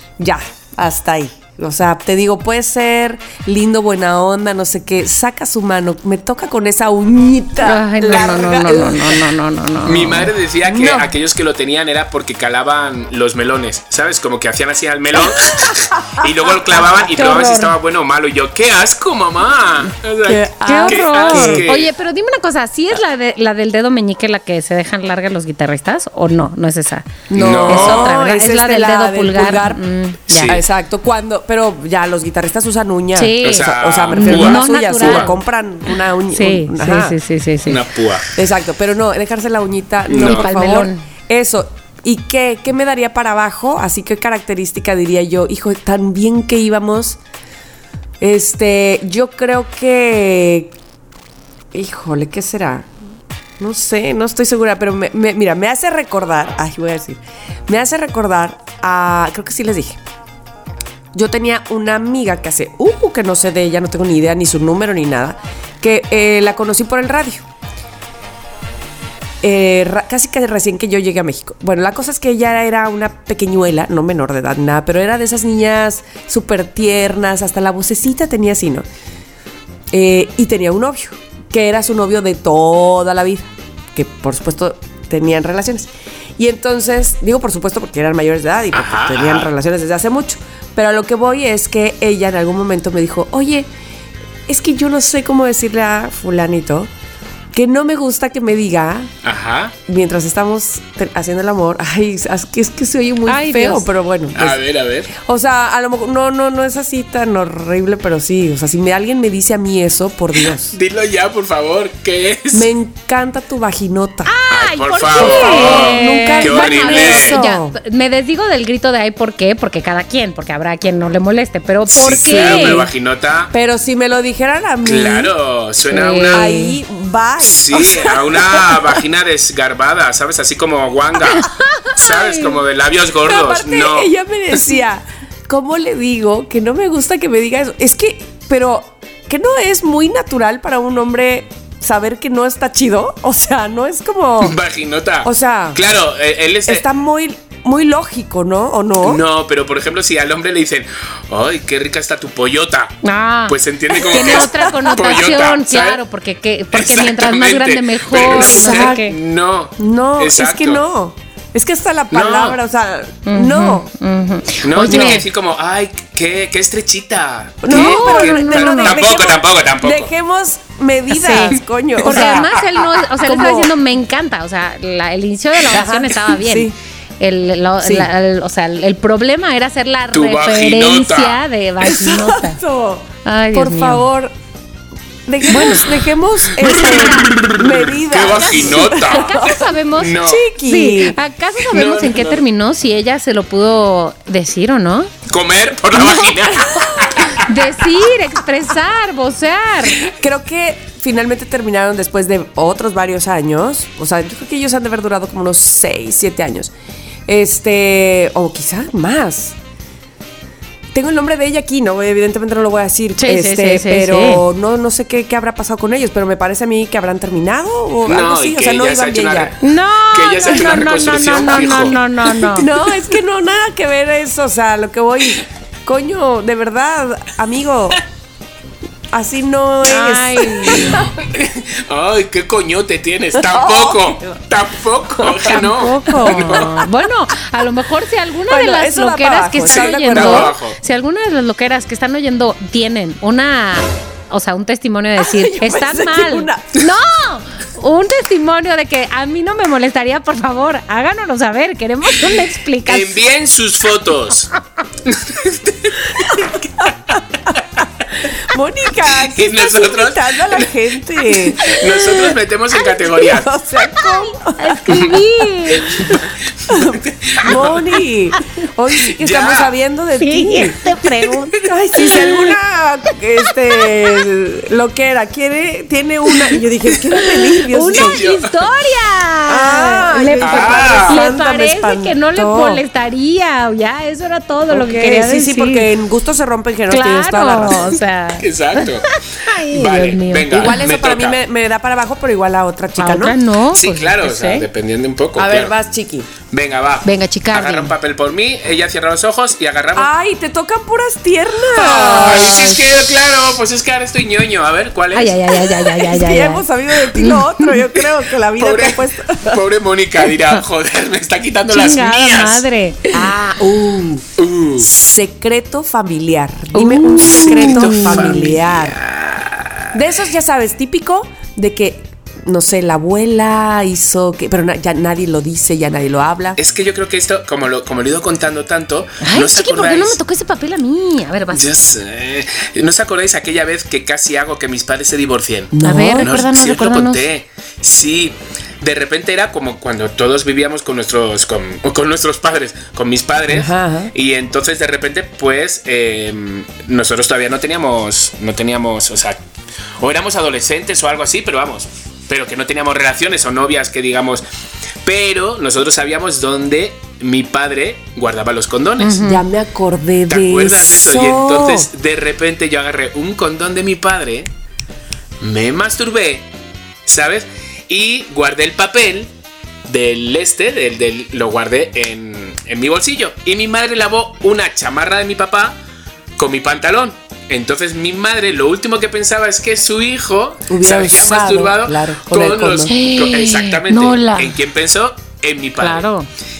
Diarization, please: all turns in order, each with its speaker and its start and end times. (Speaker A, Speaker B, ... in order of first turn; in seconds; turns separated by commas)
Speaker A: 0.2-9.2, Speaker B: 7.6-10.3, Speaker C: 9.8-21.9, Speaker A: 10.7-11.1, Speaker A: 15.4-15.7, Speaker B: 17.1-17.7, Speaker A: 20.2-21.6, Speaker B: 20.6-30.5, Speaker A: 27.3-29.8, Speaker C: 27.3-28.1, Speaker C: 30.3-30.6, Speaker A: 30.4-37.2, Speaker B: 33.1-35.4, Speaker C: 33.4-35.3, Speaker B: 36.3-37.8, Speaker C: 37.7-38.3, Speaker A: 38.4-47.2, Speaker C: 40.1-40.5, Speaker B: 40.2-41.0, Speaker A: 48.2-50.8, Speaker A: 51.7-52.9, Speaker A: 53.6-60.0, Speaker A: 61.1-67.4, Speaker A: 69.4-78.8, Speaker A: 79.9-93.7, Speaker C: 88.7-89.5, Speaker A: 94.5-96.9, Speaker A: 97.5-99.1, Speaker C: 99.2-99.7, Speaker A: 99.9-104.6, Speaker B: 103.3-103.9, Speaker C: 104.3-105.1, Speaker A: 105.1-110.7, Speaker C: 110.7-112.7, Speaker A: 112.5-114.3, Speaker B: 114.2-122.8, Speaker C: 114.5-117.4, Speaker A: 115.1-117.8, Speaker C: 121.9-123.5, Speaker A: 122.1-122.8, Speaker A: 123.5-125.3, Speaker C: 124.8-126.5, Speaker B: 125.9-126.8, Speaker A: 126.3-129.0, Speaker C: 127.4-134.1, Speaker B: 132.0-132.5, Speaker A: 133.2-144.6, Speaker C: 144.4-146.9, Speaker A: 145.2-145.8, Speaker A: 146.7-149.2, Speaker C: 149.0-156.0, Speaker B: 153.0-159.1, Speaker A: 154.0-154.9, Speaker C: 156.7-160.8, Speaker A: 158.1-159.0, Speaker A: 159.8-163.9, Speaker C: 162.1-162.6, Speaker B: 163.3-165.2, Speaker C: 164.6-170.1, Speaker A: 164.9-165.2, Speaker A: 167.6-172.4, Speaker B: 167.7-169.0, Speaker B: 171.1-182.6, Speaker C: 172.0-172.8, Speaker A: 173.2-173.7, Speaker A: 175.7-176.7, Speaker A: 177.8-178.1, Speaker C: 180.1-181.4, Speaker A: 182.0-184.3, Speaker B: 183.2-184.0, Speaker A: 185.2-189.6, Speaker C: 187.0-190.4, Speaker B: 188.4-195.1, Speaker A: 190.2-191.2, Speaker C: 191.7-192.4, Speaker C: 195.3-197.5, Speaker A: 196.8-197.3, Speaker B: 197.3-200.0, Speaker A: 200.1-206.7, Speaker A: 207.3-209.6, Speaker A: 210.9-219.5, Speaker B: 213.2-214.4, Speaker C: 218.1-219.6, Speaker B: 219.6-222.7, Speaker C: 220.1-222.5, Speaker A: 222.5-228.0, Speaker A: 229.1-231.1, Speaker B: 229.8-231.1, Speaker C: 230.9-236.7, Speaker A: 233.4-234.4, Speaker A: 235.2-236.8, Speaker B: 235.5-253.2, Speaker A: 238.5-240.5, Speaker C: 239.7-240.8, Speaker A: 245.2-246.7, Speaker C: 252.8-254.5, Speaker C: 255.1-256.3, Speaker A: 256.2-257.1, Speaker A: 258.3-261.7, Speaker C: 259.2-260.7, Speaker C: 261.2-263.5, Speaker A: 263.1-265.2, Speaker B: 264.6-266.1, Speaker C: 265.7-267.9, Speaker A: 266.7-270.8, Speaker C: 269.2-269.7, Speaker B: 270.2-272.5, Speaker A: 271.5-278.2, Speaker B: 277.7-285.9, Speaker C: 277.9-278.5, Speaker A: 279.5-282.8, Speaker C: 280.4-281.2, Speaker A: 284.7-288.0, Speaker B: 286.9-290.8, Speaker C: 288.4-289.1, Speaker C: 289.7-291.4, Speaker A: 290.5-293.3, Speaker B: 293.0-294.6, Speaker C: 293.7-295.7, Speaker A: 295.4-296.3, Speaker C: 296.5-300.1, Speaker B: 297.0-297.9, Speaker A: 299.9-302.8, Speaker C: 301.7-305.7, Speaker B: 305.1-306.6, Speaker A: 305.9-309.6, Speaker C: 308.6-312.6, Speaker B: 311.7-313.0, Speaker A: 313.1-314.3, Speaker C: 314.4-314.9, Speaker A: 314.8-318.9, Speaker B: 316.7-318.4, Speaker C: 317.2-319.9, Speaker A: 319.9-326.6, Speaker C: 326.6-330.2, Speaker B: 329.2-331.6, Speaker C: 331.5-349.4, Speaker A: 335.7-336.3, Speaker B: 335.8-337.2, Speaker A: 343.5-344.1, Speaker C: 350.0-354.4, Speaker C: 355.0-359.2, Speaker B: 359.0-359.4, Speaker A: 359.2-361.9, Speaker C: 360.3-364.5, Speaker C: 365.4-366.5, Speaker C: 367.1-369.3, Speaker C: 369.9-375.8, Speaker C: 376.4-386.1, Speaker A: 380.7-382.9, Speaker B: 382.9-384.5, Speaker B: 385.8-386.3